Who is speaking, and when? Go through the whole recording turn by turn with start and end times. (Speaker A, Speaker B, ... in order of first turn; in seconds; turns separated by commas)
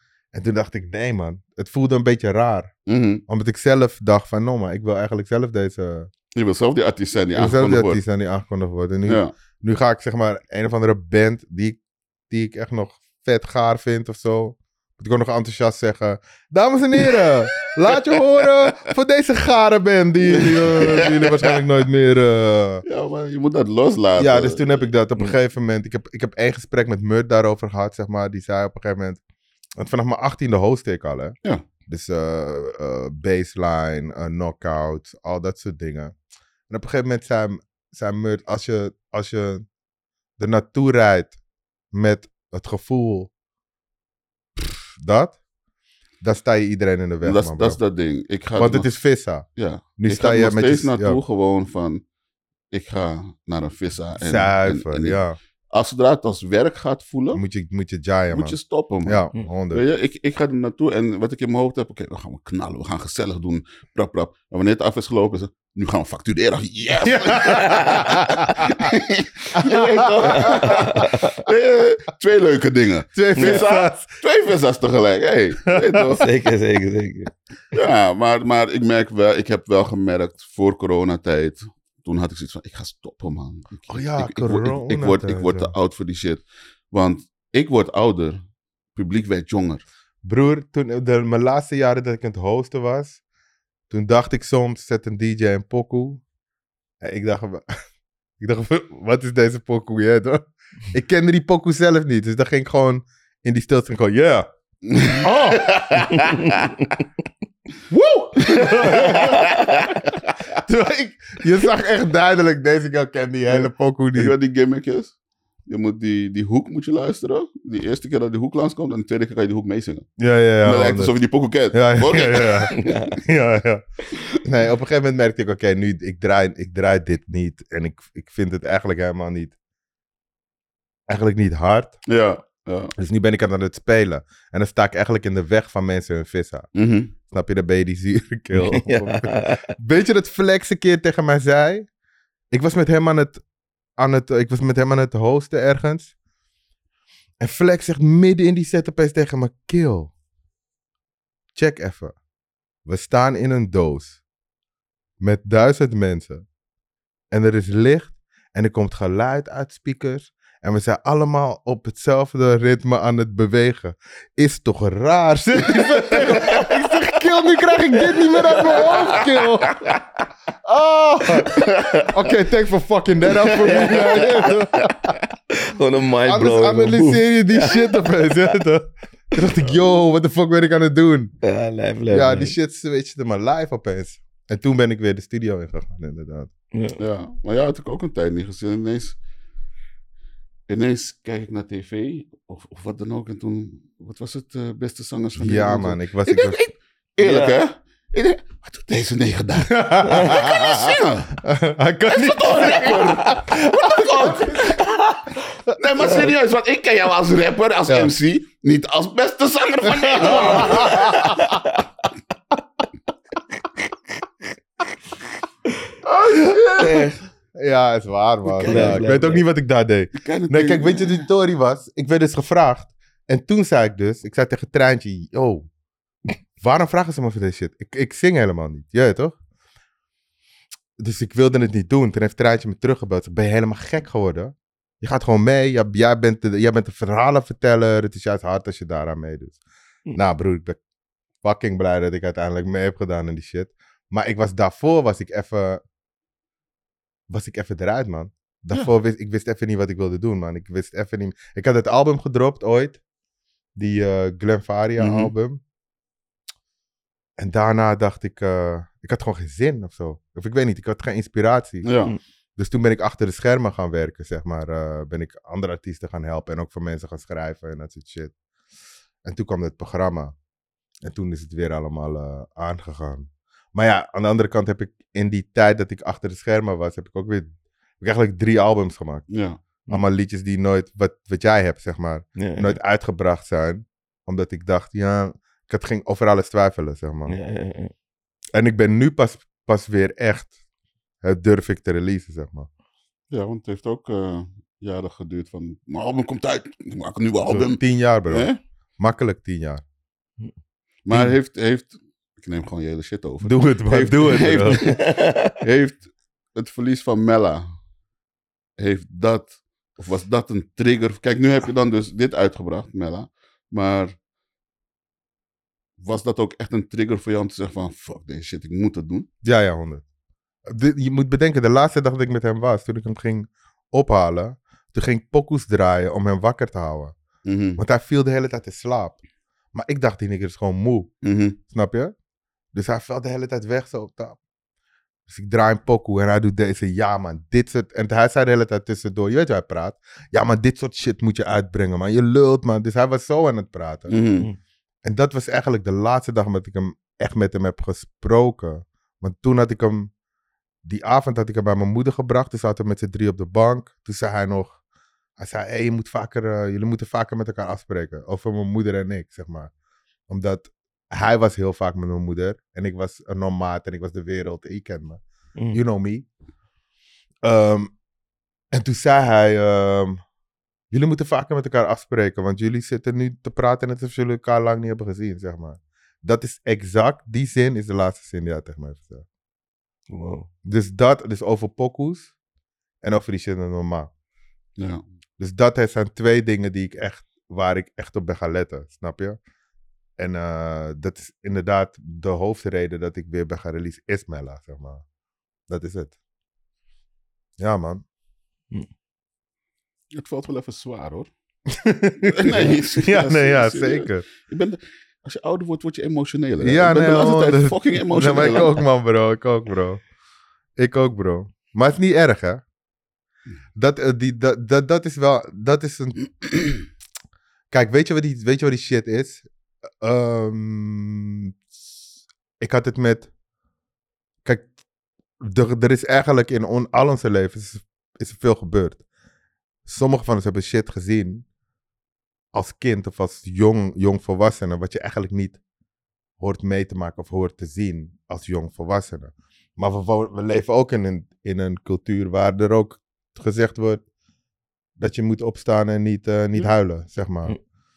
Speaker A: 0.3-2.7, Speaker B: 2.9-3.2, Speaker A: 3.3-6.1, Speaker B: 6.3-8.0, Speaker A: 7.3-22.8, Speaker B: 9.1-9.3, Speaker B: 18.6-18.9, Speaker B: 20.2-21.6, Speaker B: 22.8-24.7, Speaker A: 24.1-29.2, Speaker A: 29.8-31.4, Speaker A: 31.9-36.1, Speaker A: 36.7-39.7, Speaker A: 40.4-41.3, Speaker A: 41.9-43.3, Speaker A: 44.6-45.4, Speaker A: 46.2-47.8, Speaker B: 47.2-48.9, Speaker A: 48.6-49.5, Speaker B: 49.6-52.0, Speaker A: 50.0-51.2, Speaker B: 52.7-57.4, Speaker A: 54.2-55.4, Speaker A: 57.3-59.8, Speaker B: 58.3-76.3, Speaker A: 67.0-68.9, Speaker A: 69.5-71.1, Speaker C: 70.3-71.4, Speaker A: 73.1-74.1, Speaker C: 73.3-73.6, Speaker A: 75.7-76.0, Speaker C: 76.0-77.3, Speaker B: 77.7-88.4, Speaker A: 83.9-85.7, Speaker B: 88.9-89.8, Speaker A: 90.2-93.2, Speaker A: 93.9-96.2, Speaker A: 97.0-97.6, Speaker A: 98.4-104.5, Speaker B: 104.8-106.7, Speaker A: 105.2-106.2, Speaker C: 106.2-106.5, Speaker A: 107.9-109.6, Speaker B: 108.4-110.0, Speaker A: 110.6-114.3, Speaker B: 113.5-115.2, Speaker B: 115.7-120.1, Speaker A: 120.2-121.1, Speaker B: 120.6-123.0, Speaker A: 121.7-123.8, Speaker C: 122.7-123.2, Speaker A: 124.4-129.5, Speaker A: 131.1-131.9, Speaker B: 132.1-132.9, Speaker A: 133.0-136.7, Speaker B: 136.8-137.1, Speaker A: 137.3-141.9, Speaker C: 138.5-139.7, Speaker A: 142.5-143.4, Speaker A: 144.0-146.1, Speaker A: 147.4-150.1, Speaker A: 151.6-152.1, Speaker A: 152.8-154.2, Speaker A: 155.2-156.4, Speaker A: 157.3-169.9, Speaker B: 166.3-166.6, Speaker C: 168.1-169.2, Speaker B: 168.6-169.2, Speaker A: 170.7-175.2, Speaker B: 171.4-172.3, Speaker C: 173.6-174.4, Speaker B: 173.6-174.8, Speaker C: 175.5-178.4, Speaker A: 176.2-181.3, Speaker B: 179.6-180.0, Speaker C: 181.4-182.6, Speaker A: 182.1-186.5, Speaker C: 186.7-187.0, Speaker B: 187.0-189.2, Speaker B: 190.7-201.4, Speaker A: 195.4-196.6, Speaker C: 197.2-197.6, Speaker A: 199.7-204.8, Speaker B: 202.1-211.6, Speaker A: 207.9-208.1, Speaker A: 209.8-211.6, Speaker C: 210.3-211.8, Speaker B: 216.0-217.1, Speaker C: 216.8-217.2, Speaker A: 217.5-225.7, Speaker B: 218.5-219.1, Speaker C: 218.6-219.4, Speaker B: 220.2-221.2, Speaker A: 226.6-229.3, Speaker A: 231.0-239.6, Speaker A: 240.1-240.8, Speaker A: 241.4-245.8, Speaker A: 247.3-253.0, Speaker A: 253.8-255.6, Speaker B: 255.0-255.3, Speaker A: 257.4-261.9, Speaker B: 261.8-262.1, Speaker A: 262.6-268.3, Speaker A: 269.2-270.3, Speaker A: 271.0-279.2, Speaker B: 279.3-279.6, Speaker A: 279.9-287.3, Speaker C: 282.4-282.8, Speaker C: 287.3-287.9, Speaker A: 288.5-290.5, Speaker A: 291.2-292.7, Speaker B: 293.3-298.6, Speaker A: 297.5-299.8, Speaker B: 301.0-307.6, Speaker A: 303.4-304.8, Speaker C: 304.7-305.6, Speaker B: 308.8-314.2, Speaker B: 316.0-319.3, Speaker A: 319.4-320.0, Speaker A: 320.7-327.1, Speaker B: 327.4-327.8, Speaker A: 327.8-329.2, Speaker A: 329.7-331.1, Speaker B: 331.2-331.6, Speaker A: 331.7-332.1, Speaker A: 332.7-334.4, Speaker A: 335.3-344.1, Speaker B: 344.1-344.5, Speaker A: 345.0-350.1, Speaker A: 350.8-354.8, Speaker A: 355.4-359.7, Speaker A: 360.3-366.2, Speaker A: 367.4-367.9, Speaker A: 368.7-370.2, Speaker A: 370.9-379.2, Speaker C: 380.1-380.5, Speaker A: 380.6-382.3, Speaker A: 383.0-384.1, Speaker B: 384.8-385.0, Speaker A: 385.4-389.4, Speaker A: 390.2-395.0, Speaker A: 395.7-396.1, Speaker A: 397.6-398.0, Speaker B: 400.1-401.3, Speaker A: 401.7-404.2, Speaker B: 402.2-408.8, Speaker A: 406.6-410.0, Speaker A: 410.8-412.6, Speaker A: 413.8-416.4, Speaker A: 417.7-419.4, Speaker A: 420.0-421.6, Speaker A: 422.6-423.3, Speaker A: 425.4-429.0, Speaker A: 429.9-431.4, Speaker A: 432.5-435.6, Speaker A: 436.4-444.0, Speaker A: 445.0-447.6